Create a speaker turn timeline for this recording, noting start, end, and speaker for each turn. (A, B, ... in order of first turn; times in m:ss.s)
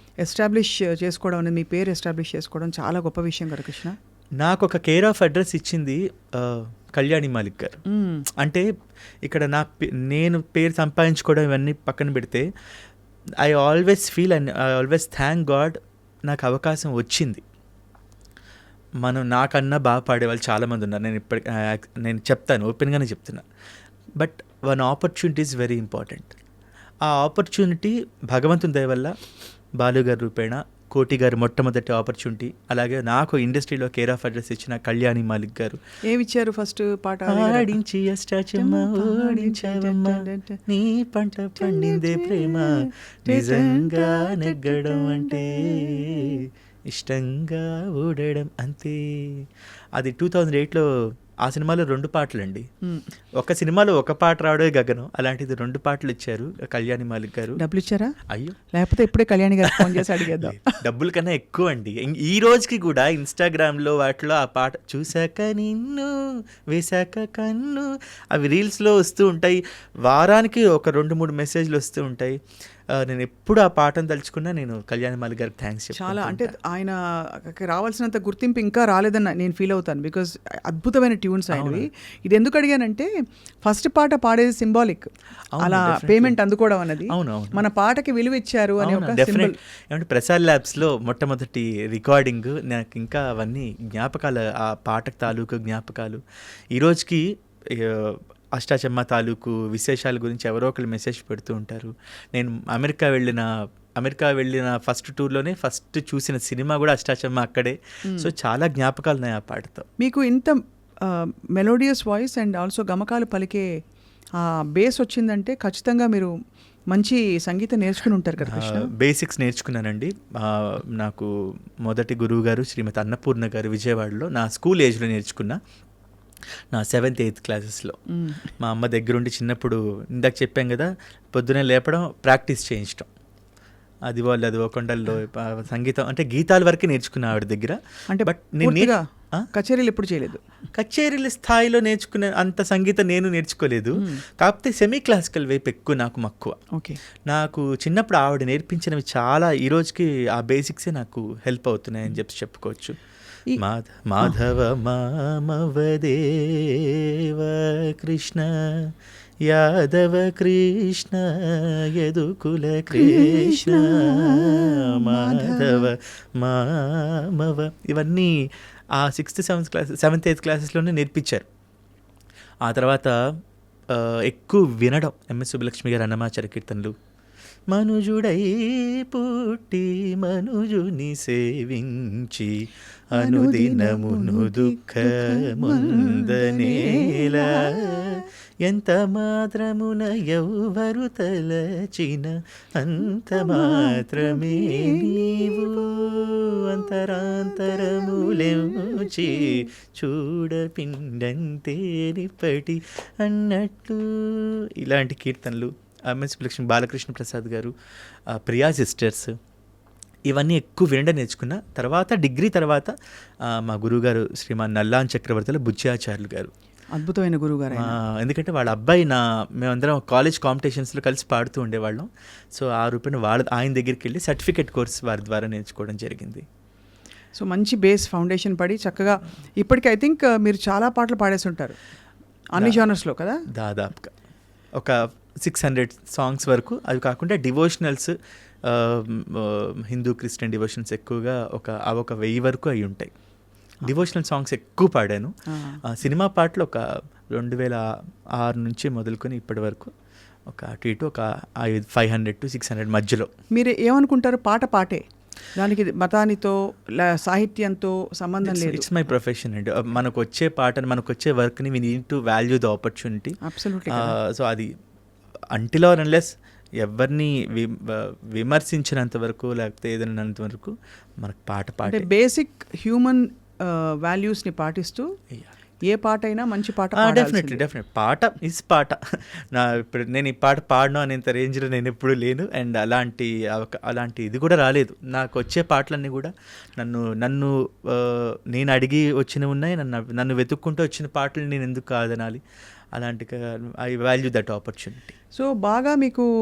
0:00.2-0:03.9 A
0:04.4-0:07.8 B
0:07.9-0:08.2 A
0:08.4-0:08.6 B
0:09.2-0:12.4 B
0:13.4-0:15.8 B
0:16.3-0:17.4 B
0:19.0-0:23.4 B
0:24.2-0:26.3 B
0:27.1-0:29.1 B
0:29.8-0:35.8 B
0:36.1-0:37.8 A
0:37.3-0:42.7 B
0:38.6-0:40.6 A
0:41.6-0:46.4 A
0:43.2-0:50.9 B
0:51.4-0:52.7 B
0:53.4-0:57.6 B
0:57.6-0:58.1 A
0:58.3-0:58.6 B
0:58.7-1:00.8 A
1:00.4-1:06.1 B
1:06.7-1:12.4 B
1:12.9-1:16.5 B
1:16.0-1:17.0 A
1:17.5-1:23.1 A
1:21.5-1:21.9 B
1:23.6-1:25.1 A
1:25.6-1:26.4 B
1:25.6-1:29.5 A
1:27.1-1:27.6 B
1:28.8-1:36.2 B
1:36.7-1:49.8 B
1:50.0-1:53.6 A
1:54.4-1:56.3 A
1:56.9-1:58.9 A
1:58.5-2:01.3 B
2:01.8-2:05.6 B
2:06.7-2:08.0 B
2:08.1-2:08.4 A
2:08.6-2:13.1 B
2:14.1-2:19.5 B
2:18.1-2:19.0 A
2:19.5-2:20.4 A
2:20.7-2:26.5 B
2:26.7-2:27.0 A
2:27.3-2:33.0 B
2:33.6-2:38.9 B
2:39.4-2:48.3 B
2:42.9-2:45.9 A
2:49.0-2:51.4 B
2:52.6-2:53.1 B
2:53.9-2:56.9 B
2:57.7-3:27.7 B
3:03.1-3:08.2 A
3:13.3-3:15.7 A
3:17.7-3:19.6 A
3:28.3-3:29.3 B
3:30.3-3:32.9 B
3:33.4-3:36.5 B
3:36.9-3:37.9 A
3:37.7-3:46.4 B
3:47.4-3:51.8 A
3:52.5-3:53.4 A
3:52.6-3:52.8 B
3:53.5-3:54.1 B
3:54.8-3:58.1 B
3:58.6-4:03.1 B
4:03.8-4:05.3 B
4:05.5-4:05.8 A
4:05.8-4:07.8 B
4:08.4-4:09.9 B
4:10.5-4:13.3 B
4:13.5-4:15.0 A
4:15.5-4:18.9 A
4:18.4-4:23.4 B
4:23.4-4:24.2 A
4:23.9-4:24.7 B
4:25.5-4:32.1 B
4:31.8-4:35.0 A
4:35.8-4:37.6 A
4:37.0-4:52.4 B
4:52.9-4:55.1 B
4:55.4-4:56.3 A